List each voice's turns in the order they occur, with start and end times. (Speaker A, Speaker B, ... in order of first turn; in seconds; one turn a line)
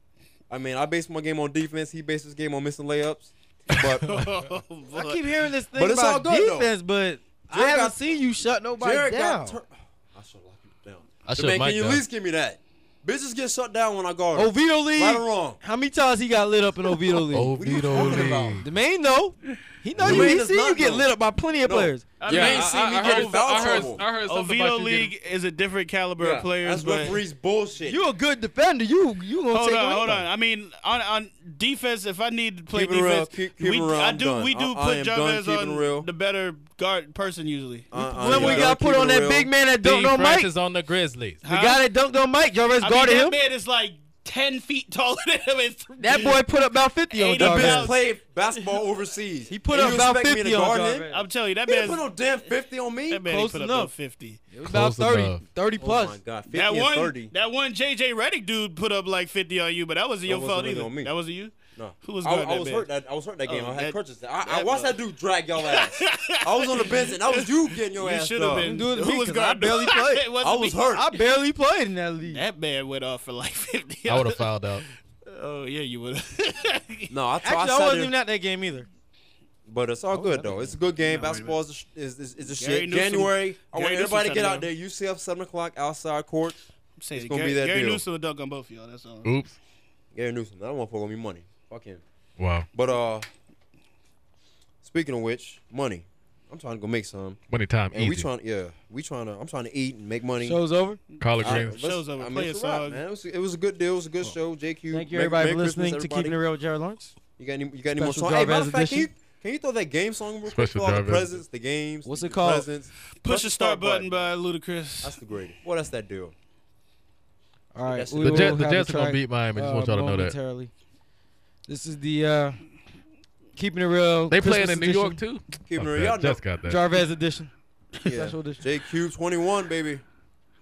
Speaker A: 0.5-4.2
Speaker B: 3.7-4.3
Speaker C: 4.1-5.3
Speaker D: 4.9-9.6
Speaker A: 5.7-6.7
Speaker A: 7.5-8.0
Speaker A: 8.8-15.6
Speaker B: 11.3-12.0
Speaker D: 14.3-22.1
Speaker B: 17.3-18.6
Speaker A: 17.5-18.6
Speaker A: 20.0-21.1
Speaker B: 20.0-20.3
Speaker A: 21.6-24.0
Speaker C: 22.2-27.2
Speaker B: 22.2-25.1
Speaker A: 26.2-28.0
Speaker D: 27.8-30.2
Speaker C: 29.5-38.7
Speaker A: 32.7-36.1
Speaker A: 37.9-39.5
Speaker D: 37.9-40.5
Speaker B: 39.8-41.4
Speaker C: 41.4-41.8
Speaker D: 41.4-43.4
Speaker C: 42.8-46.4
Speaker D: 46.0-47.9
Speaker C: 47.1-48.0
Speaker A: 47.4-51.0
Speaker D: 49.5-51.3
Speaker C: 51.1-52.5
Speaker A: 51.6-53.3
Speaker C: 53.1-54.4
Speaker D: 53.2-53.9
Speaker D: 54.5-56.2
Speaker B: 54.6-55.4
Speaker A: 55.8-57.3
Speaker C: 56.5-62.9
Speaker A: 60.2-61.1
Speaker A: 61.8-68.7
Speaker C: 63.4-65.0
Speaker C: 65.6-70.9
Speaker D: 68.6-70.2
Speaker A: 70.4-71.1
Speaker D: 70.9-72.4
Speaker C: 72.2-74.5
Speaker B: 74.1-74.8
Speaker C: 75.3-77.1
Speaker A: 77.1-78.1
Speaker D: 77.4-78.9
Speaker A: 79.7-86.6
Speaker D: 80.1-80.8
Speaker C: 81.0-81.5
Speaker C: 82.6-84.7
Speaker C: 87.0-89.3
Speaker A: 87.1-88.0
Speaker B: 89.2-89.6
Speaker A: 90.1-92.0
Speaker B: 92.4-92.7
Speaker A: 92.7-93.3
Speaker A: 94.8-100.6
Speaker B: 97.5-98.3
Speaker D: 100.4-101.0
Speaker B: 101.2-101.8
Speaker A: 101.4-106.4
Speaker C: 101.4-103.0
Speaker D: 104.9-107.1
Speaker A: 107.4-114.3
Speaker D: 108.0-109.1
Speaker B: 110.5-111.4
Speaker D: 112.0-112.7
Speaker C: 113.2-115.2
Speaker A: 115.0-116.3
Speaker D: 117.7-120.7
Speaker A: 117.9-118.6
Speaker B: 118.2-120.4
Speaker D: 121.7-122.6
Speaker D: 123.6-125.2
Speaker B: 124.3-126.8
Speaker A: 125.6-126.4
Speaker D: 126.6-127.5
Speaker D: 128.0-128.6
Speaker A: 128.0-130.0